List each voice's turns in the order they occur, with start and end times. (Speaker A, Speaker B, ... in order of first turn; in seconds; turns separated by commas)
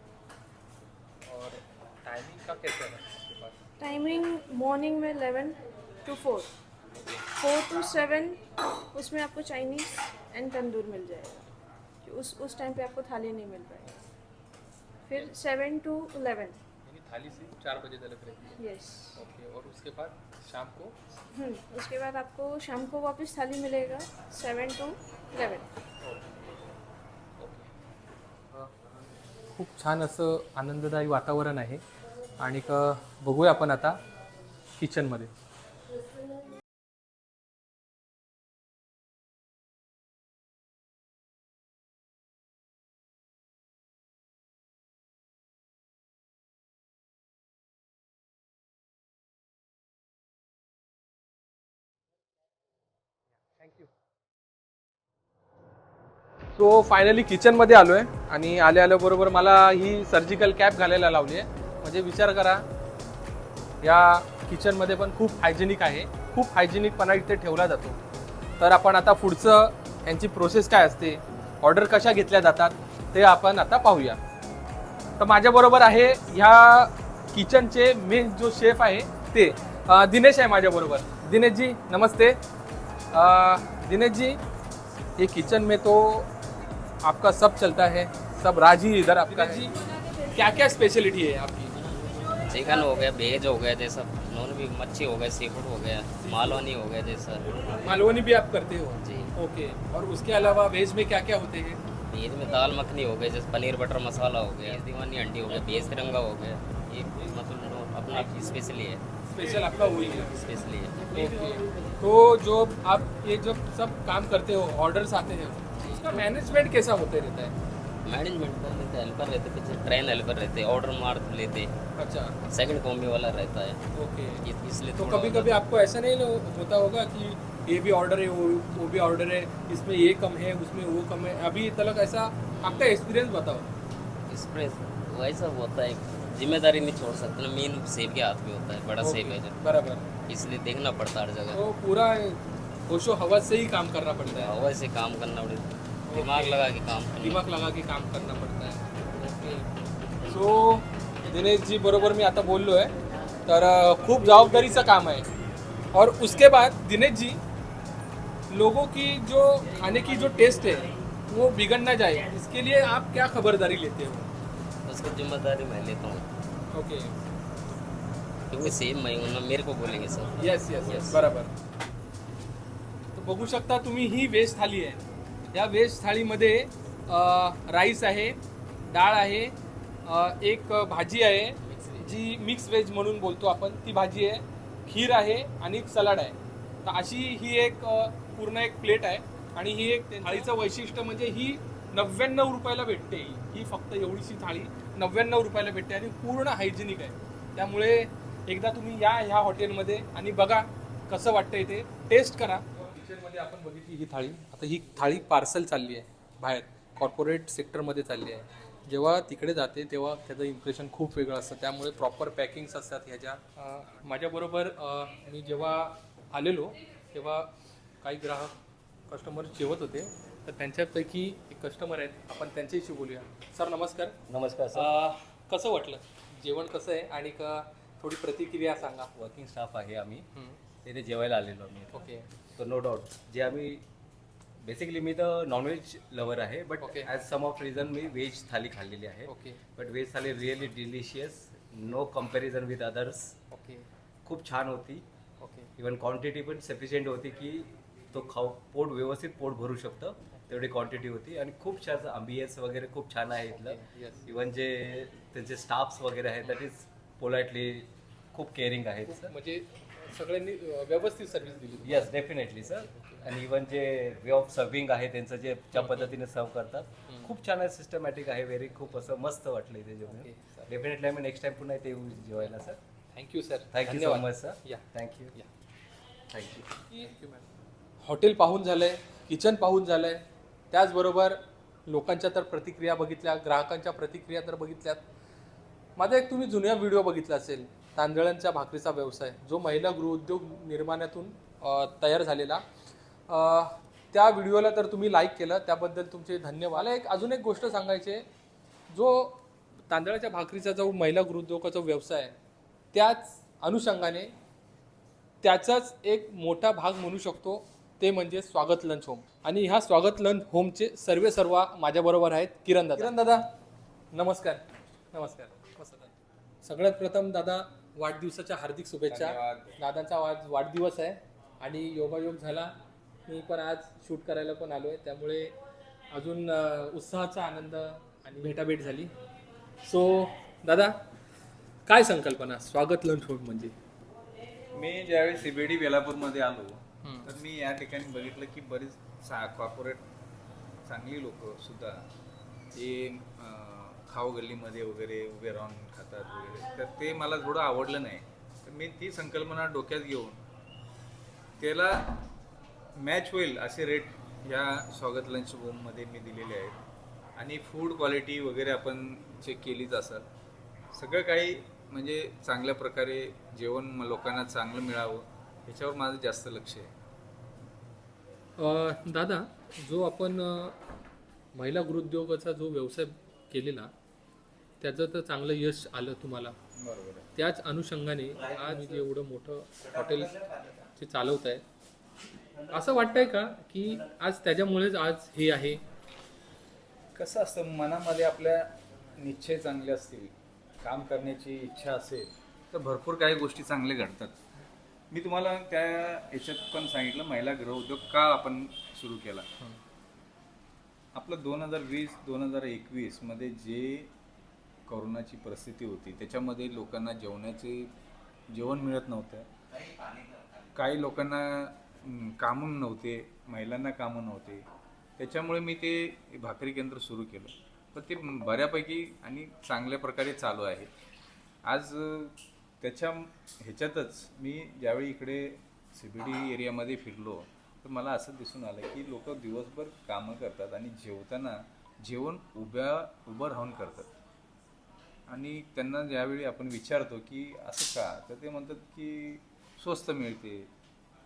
Speaker A: 1.2-3.6, Speaker B: 3.8-6.5, Speaker B: 7.2-11.5, Speaker B: 12.0-13.9, Speaker B: 15.1-16.6, Speaker A: 16.9-18.6, Speaker B: 18.5-19.2, Speaker A: 19.2-21.0, Speaker B: 21.3-25.7, Speaker A: 27.4-27.7, Speaker A: 29.6-31.8, Speaker A: 32.4-34.0, Speaker A: 34.8-35.3, Speaker A: 53.6-53.9, Speaker A: 56.5-62.6, Speaker A: 63.8-68.0, Speaker A: 68.6-74.2, Speaker A: 75.2-82.4, Speaker A: 83.1-84.4, Speaker A: 85.2-86.3, Speaker A: 87.0-89.7, Speaker A: 90.3-91.8, Speaker C: 92.5-97.5, Speaker A: 96.2-96.6, Speaker A: 97.7-101.8, Speaker C: 99.0-99.3, Speaker C: 102.1-109.0, Speaker A: 109.3-110.3, Speaker C: 110.2-111.2, Speaker A: 111.1-117.5, Speaker C: 115.9-116.2, Speaker C: 118.0-121.7, Speaker A: 122.0-122.4, Speaker C: 122.5-123.8, Speaker A: 123.9-124.4, Speaker C: 124.4-125.6, Speaker A: 125.0-133.7, Speaker C: 134.3-139.6, Speaker A: 139.0-140.1, Speaker C: 140.3-141.6, Speaker A: 141.5-144.6, Speaker C: 144.3-147.4, Speaker A: 146.1-146.6, Speaker A: 147.2-149.7, Speaker A: 150.3-152.9, Speaker A: 153.5-155.3, Speaker A: 155.9-157.4, Speaker A: 158.5-164.3, Speaker C: 164.8-166.2, Speaker A: 166.7-167.2, Speaker C: 168.5-171.3, Speaker A: 170.3-171.5, Speaker A: 173.1-175.0, Speaker A: 175.5-179.5, Speaker A: 180.1-218.5, Speaker C: 181.6-182.1, Speaker A: 219.1-224.2, Speaker D: 224.3-224.9, Speaker A: 224.7-229.1, Speaker D: 229.2-230.3, Speaker A: 230.3-230.6, Speaker D: 230.8-233.8, Speaker A: 231.9-232.3, Speaker D: 234.6-243.3, Speaker A: 236.8-237.1, Speaker A: 239.3-239.6, Speaker A: 243.5-243.9, Speaker D: 244.2-245.1, Speaker A: 245.4-245.7, Speaker D: 245.8-259.3, Speaker A: 253.6-254.3, Speaker A: 259.1-263.2, Speaker D: 261.8-272.8, Speaker A: 265.8-266.1, Speaker A: 267.1-267.3, Speaker A: 270.1-270.7, Speaker A: 273.1-275.5, Speaker D: 273.7-275.3, Speaker D: 276.3-276.7, Speaker A: 276.9-277.5, Speaker A: 278.0-285.0, Speaker A: 286.0-292.6, Speaker A: 293.3-298.2, Speaker A: 298.9-302.4, Speaker A: 302.9-304.3, Speaker A: 305.4-313.5, Speaker A: 314.1-322.7, Speaker E: 319.1-319.8, Speaker A: 323.3-325.5, Speaker A: 326.1-329.1, Speaker A: 329.8-331.0, Speaker A: 331.9-333.7, Speaker E: 334.7-340.0, Speaker A: 337.0-337.3, Speaker E: 340.9-342.1, Speaker E: 342.8-350.4, Speaker E: 351.6-352.1, Speaker E: 353.0-356.8, Speaker E: 357.4-360.3, Speaker E: 360.9-366.9, Speaker A: 368.6-370.8, Speaker A: 371.6-373.9, Speaker A: 374.8-376.6, Speaker E: 376.8-377.3, Speaker A: 377.4-381.6, Speaker A: 382.7-385.8, Speaker E: 387.2-394.4, Speaker E: 395.1-399.5, Speaker E: 401.1-404.1, Speaker E: 404.9-407.9, Speaker E: 408.5-409.5, Speaker E: 410.8-414.7, Speaker E: 415.2-420.9, Speaker E: 421.6-434.1, Speaker E: 435.3-440.7